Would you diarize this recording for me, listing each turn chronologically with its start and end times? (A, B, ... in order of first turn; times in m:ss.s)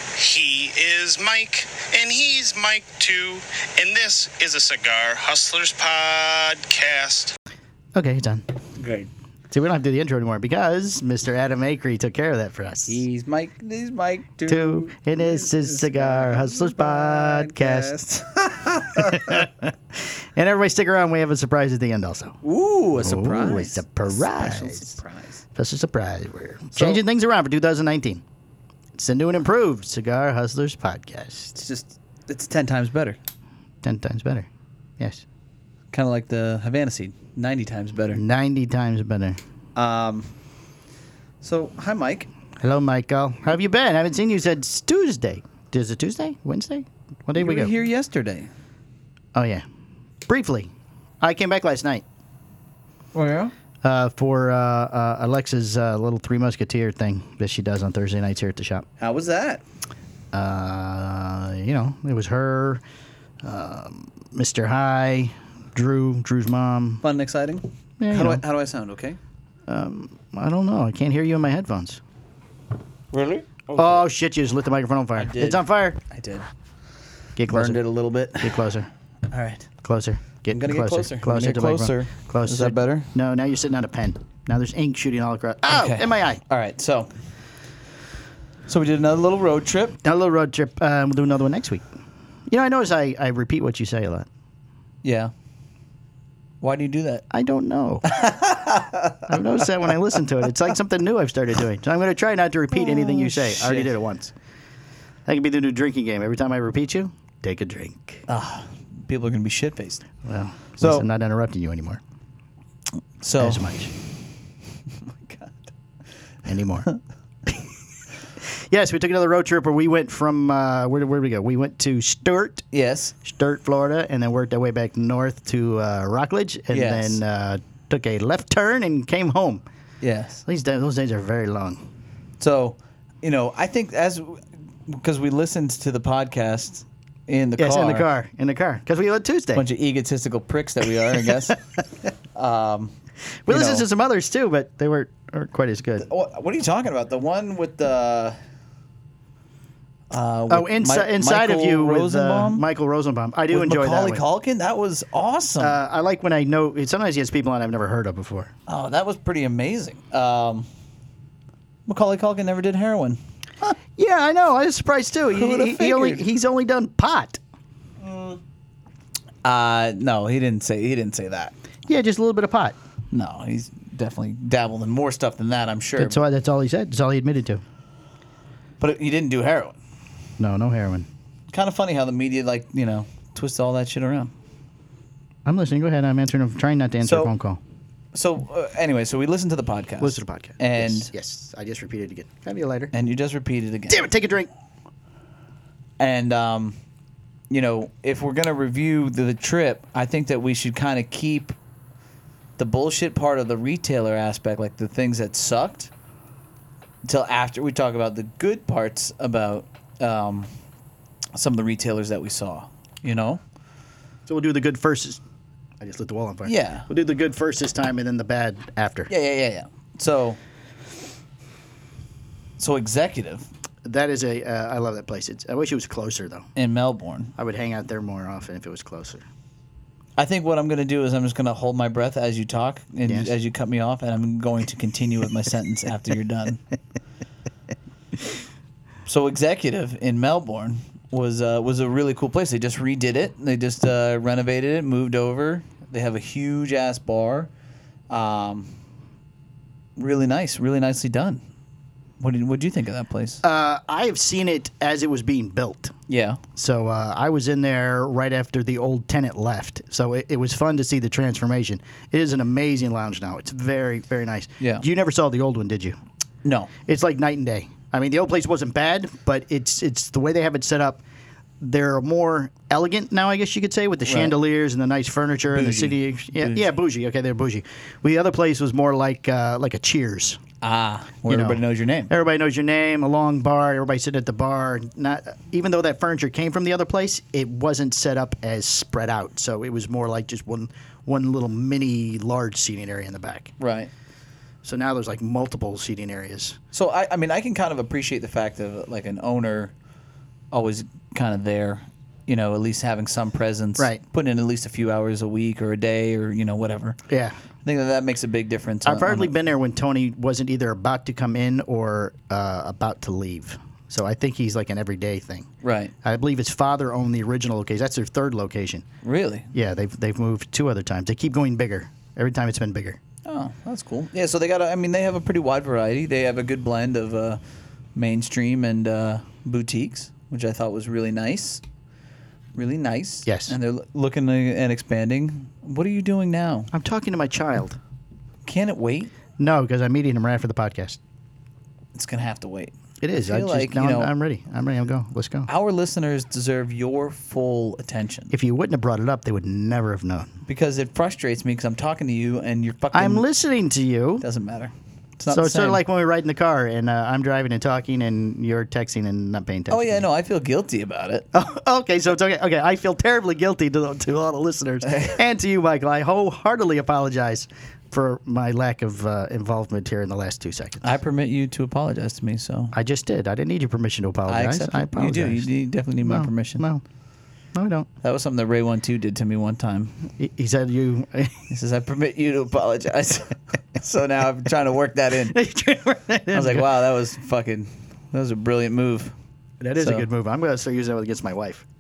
0:00.1-0:07.3 A
0:08.0-0:08.4 B
0:08.8-0:09.1 C
0:09.5-0:13.0 B
0:12.9-0:19.5 C
0:14.5-0:17.9 B
0:18.9-0:22.3 B
0:22.4-0:25.4 C
0:23.0-0:24.9 B
0:25.5-0:28.2 B
0:26.7-0:27.0 C
0:29.0-0:31.5 B
0:31.5-0:33.2 C
0:33.8-0:34.5 B
0:35.0-0:35.2 B
0:35.9-0:38.2 C
0:38.2-0:39.4 B
0:39.8-0:40.3 C
0:41.4-0:42.3 C
0:42.6-0:47.7 B
0:47.3-0:48.5 C
0:49.3-0:49.6 B
0:50.3-0:50.7 B
0:51.2-0:52.0 B
0:53.1-0:53.5 C
0:53.8-0:58.8 B
0:59.0-0:59.6 C
1:00.3-1:02.8 B
1:03.4-1:07.0 B
1:07.0-1:09.2 C
1:08.0-1:08.4 B
1:09.7-1:12.0 B
1:13.1-1:14.0 C
1:13.7-1:16.0 B
1:15.2-1:16.4 C
1:17.4-1:17.8 B
1:17.5-1:18.7 C
1:18.4-1:18.9 B
1:19.3-1:19.7 C
1:19.8-1:26.4 B
1:20.5-1:23.1 C
1:25.7-1:27.1 C
1:28.7-1:30.0 C
1:30.0-1:31.9 B
1:32.5-1:34.3 B
1:35.0-1:35.3 C
1:36.6-1:37.2 C
1:37.3-1:38.0 B
1:38.1-1:39.7 C
1:39.3-1:44.3 B
1:42.7-1:43.9 C
1:45.2-1:48.2 B
1:48.3-1:50.0 C
1:50.2-1:52.0 B
1:50.8-1:51.0 C
1:53.2-1:53.7 C
1:53.4-1:53.9 B
1:55.1-1:55.7 C
1:56.4-1:56.9 B
1:58.4-2:02.6 B
2:02.7-2:03.1 C
2:03.2-2:09.6 B
2:06.7-2:07.2 C
2:10.0-2:10.4 C
2:10.4-2:11.8 B
2:12.4-2:18.1 C
2:17.6-2:19.6 B
2:19.5-2:21.6 C
2:22.3-2:22.9 C
2:23.4-2:26.0 B
2:23.5-2:23.8 C
2:26.0-2:28.4 C
2:30.1-2:32.6 C
2:30.5-2:34.2 B
2:33.5-2:35.8 C
2:35.6-2:38.5 B
2:38.7-2:40.7 C
2:41.9-2:43.2 C
2:44.0-2:47.4 B
2:45.3-2:46.2 C
2:48.0-2:48.4 C
2:49.4-2:51.5 C
2:51.9-2:52.8 B
2:53.1-2:56.2 C
2:56.0-2:57.6 B
2:58.8-2:59.8 C
3:00.4-3:01.1 B
3:01.5-3:04.3 C
3:05.4-3:07.6 B
3:07.0-3:07.3 C
3:08.1-3:11.1 C
3:10.0-3:12.9 B
3:12.9-3:14.1 C
3:13.9-3:14.5 B
3:16.0-3:16.8 C
3:17.5-3:21.5 C
3:22.6-3:25.9 C
3:27.0-3:30.5 C
3:31.3-3:33.4 C
3:34.3-3:35.2 B
3:35.8-3:39.1 B
3:36.4-3:36.9 C
3:39.1-3:40.4 C
3:42.6-3:43.5 C
3:43.8-3:46.4 B
3:46.6-3:47.3 C
3:47.4-3:49.2 B
3:50.2-3:56.6 C
3:53.1-3:53.3 B
3:59.1-4:07.5 C
4:08.1-4:08.7 C
4:10.0-4:11.4 C
4:12.2-4:13.4 C
4:13.4-4:15.9 B
4:16.1-4:16.4 C
4:16.6-4:26.0 B
4:24.6-4:24.8 C
4:26.4-4:26.7 C
4:26.8-4:31.0 B
4:31.6-4:40.4 B
4:34.0-4:34.4 C
4:35.5-4:36.7 C
4:40.6-4:42.1 C
4:41.3-4:53.6 B
4:53.6-4:53.9 C
4:54.6-4:56.6 B
4:56.7-4:59.7 C
5:00.5-5:07.0 C
5:07.1-5:07.4 B
5:07.6-5:09.3 C
5:08.8-5:15.5 B
5:15.6-5:15.9 C
5:16.0-5:18.8 B
5:19.0-5:19.5 C
5:19.5-5:23.0 B
5:23.2-5:27.4 C
5:27.9-5:31.6 C
5:32.6-5:36.7 C
5:33.2-5:33.6 B
5:36.7-5:37.8 B
5:38.4-5:39.1 C
5:39.4-5:41.0 B
5:41.9-5:44.1 C
5:43.0-5:45.5 B
5:45.5-5:48.3 C
5:48.3-5:50.3 B
5:50.5-5:53.2 C
5:52.9-5:54.2 B
5:54.2-5:55.8 C
5:55.3-6:00.1 B
5:59.7-6:01.2 C
6:01.3-6:10.9 B
6:04.8-6:05.2 C
6:10.8-6:12.7 C
6:12.7-6:15.5 B
6:14.3-6:16.6 C
6:16.0-6:16.8 B
6:17.5-6:17.9 B
6:18.0-6:19.9 C
6:20.2-6:21.4 B
6:21.5-6:25.4 C
6:25.3-6:26.7 B
6:26.3-6:29.1 C
6:29.6-6:31.6 B
6:29.8-6:30.1 C